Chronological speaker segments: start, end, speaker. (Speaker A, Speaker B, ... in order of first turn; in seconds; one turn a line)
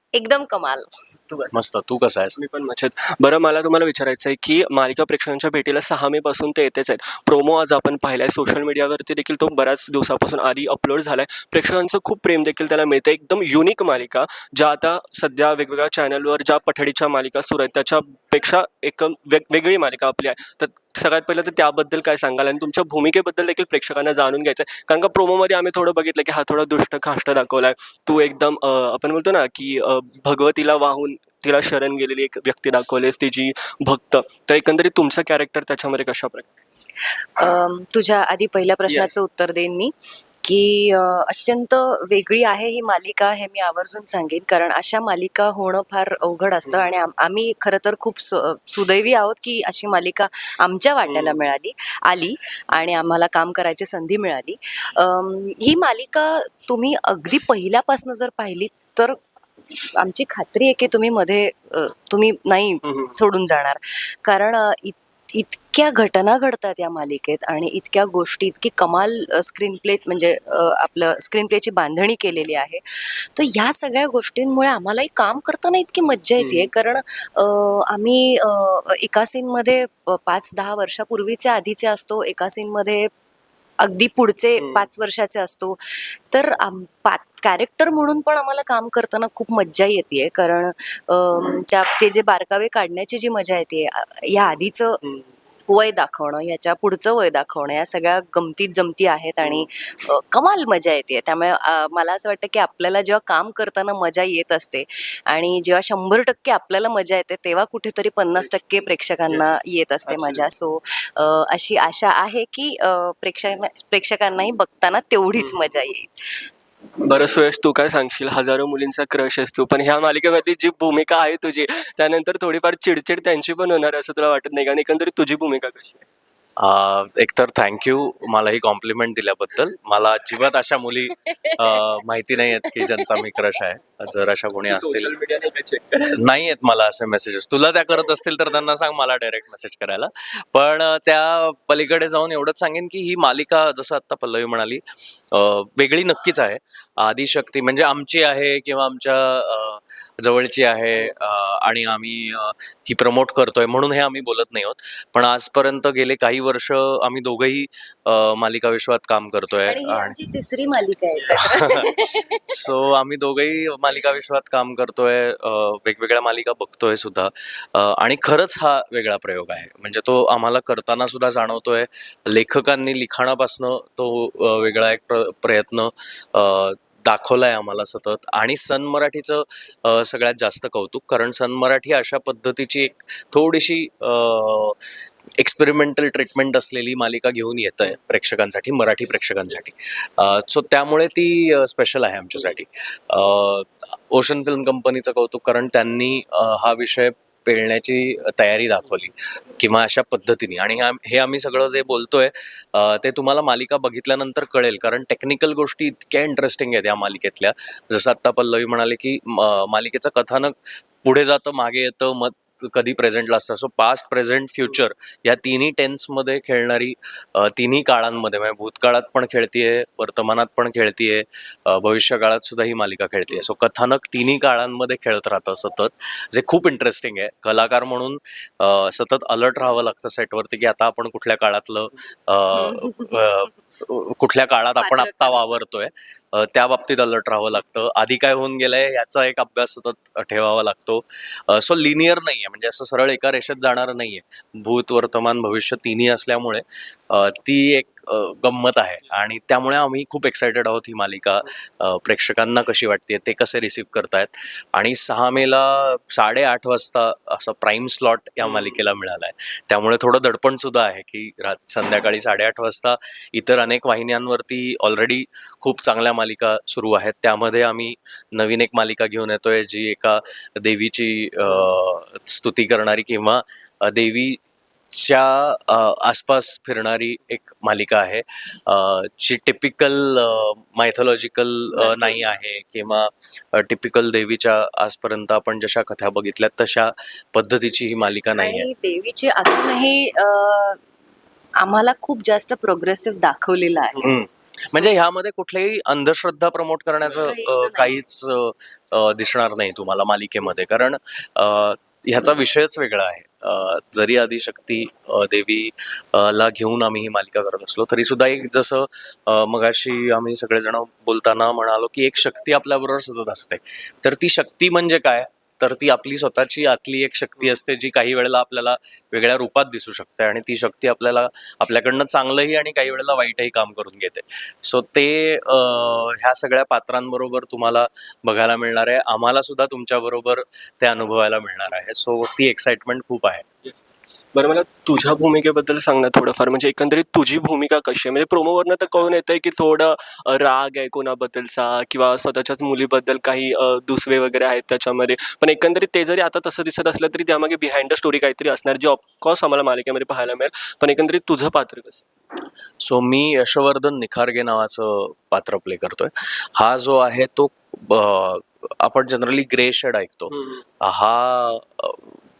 Speaker A: 0.1-0.9
Speaker B: 1.3-1.6
Speaker C: 1.5-2.4
Speaker B: 2.4-36.5
Speaker A: 37.4-59.2
Speaker B: 38.9-39.2
Speaker B: 51.0-51.5
Speaker A: 59.9-83.1
Speaker B: 62.8-63.2
Speaker B: 76.4-76.7
Speaker A: 83.8-95.0
Speaker B: 84.6-84.9
Speaker B: 95.0-95.3
Speaker A: 95.7-116.1
Speaker B: 109.3-110.5
Speaker B: 115.4-115.8
Speaker B: 117.0-126.0
Speaker C: 126.6-135.1
Speaker A: 131.3-131.8
Speaker A: 132.7-133.3
Speaker B: 134.7-136.1
Speaker C: 136.1-160.2
Speaker A: 159.6-162.5
Speaker C: 162.5-184.8
Speaker C: 185.4-274.4
Speaker A: 232.5-233.4
Speaker A: 234.8-235.6
Speaker B: 258.4-258.8
Speaker C: 274.9-288.7
Speaker A: 281.7-282.3
Speaker A: 288.4-290.8
Speaker A: 291.6-294.1
Speaker C: 294.0-333.4
Speaker A: 297.2-298.0
Speaker B: 333.6-352.0
Speaker C: 352.8-362.1
Speaker B: 360.3-360.6